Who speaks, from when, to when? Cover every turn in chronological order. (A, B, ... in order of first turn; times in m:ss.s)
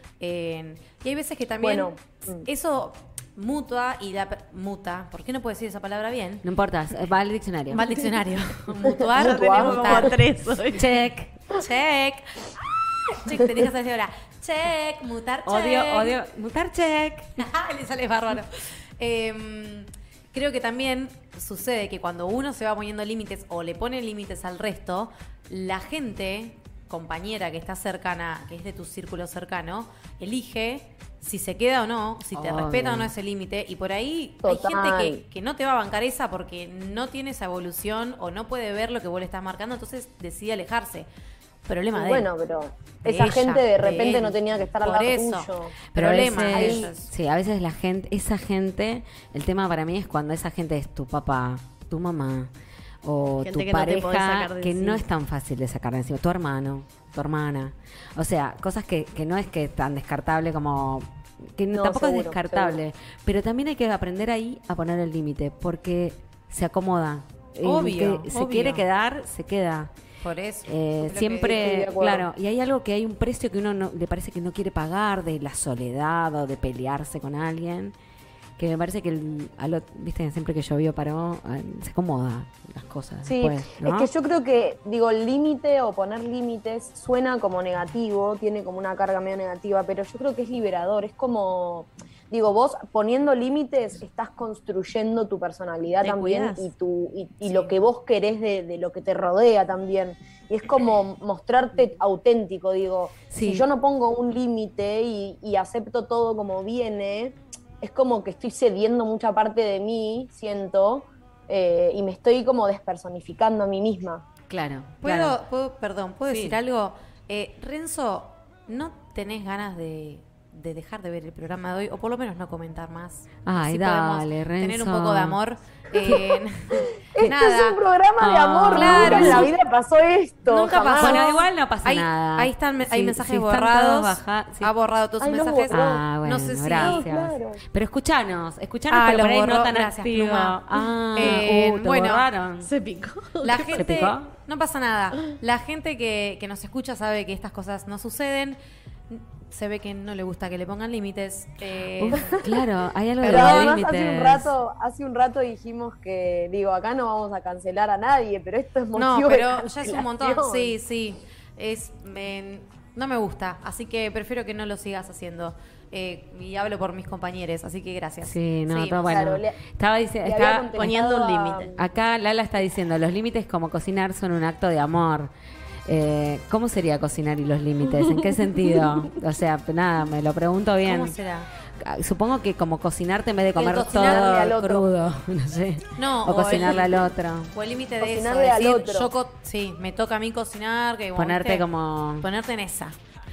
0:00.2-0:06.4 A
0:01.6-0:02.5 B
0:06.4-0:07.8 C
0:07.7-0:10.2 A
0:08.8-0:10.1 B
0:09.1-0:10.9 D
0:10.7-0:11.3 C
0:11.5-0:12.5 A
0:13.0-0:16.2 A
0:15.4-0:17.4 C
0:17.4-0:41.1 A
0:32.3-0:33.1 C
0:34.4-0:35.2 B
0:41.6-0:42.3 A
0:41.9-0:45.8 B
0:43.0-0:47.1 A
0:45.9-0:52.5 C
0:46.5-0:46.9 B
0:53.0-1:09.9 C
0:53.4-0:55.0 D
1:01.7-1:02.8 B
1:07.6-1:08.8 A
1:10.2-1:11.5 A
1:10.6-1:17.9 C
1:11.2-1:12.2 B
1:18.6-1:24.1 C
1:23.2-1:54.2 B
1:36.0-1:36.5 D
1:36.3-1:36.6 A
1:37.4-1:37.8 A
1:43.3-1:43.7 C
1:54.5-1:55.4 C
1:55.0-2:07.8 A
1:56.2-1:56.6 C
2:03.4-2:05.4 C
2:06.0-2:11.2 B
2:08.2-2:09.5 C
2:08.7-2:09.5 A
2:10.4-2:17.0 A
2:10.9-2:14.7 C
2:15.2-2:16.0 B
2:15.7-2:22.7 C
2:16.8-2:17.6 B
2:18.9-2:20.6 A
2:21.1-2:22.2 A
2:22.6-2:23.8 D
2:23.4-2:28.6 A
2:23.7-2:24.3 C
2:29.1-2:32.4 A
2:32.0-2:34.5 C
2:32.1-2:32.5 B
2:33.2-2:33.8 A
2:33.2-2:40.7 B
2:38.9-2:49.2 A
2:48.2-2:51.0 C
2:49.0-2:49.6 B
2:50.2-2:51.8 B
2:50.7-2:51.7 D
2:51.8-2:55.3 C
2:55.8-3:01.1 C
3:00.8-3:01.5 A
3:01.8-3:07.5 C
3:03.5-3:04.4 A
3:03.9-3:04.9 B
3:06.0-3:11.6 A
3:08.0-3:09.1 B
3:11.1-3:12.3 C
3:12.2-3:13.0 A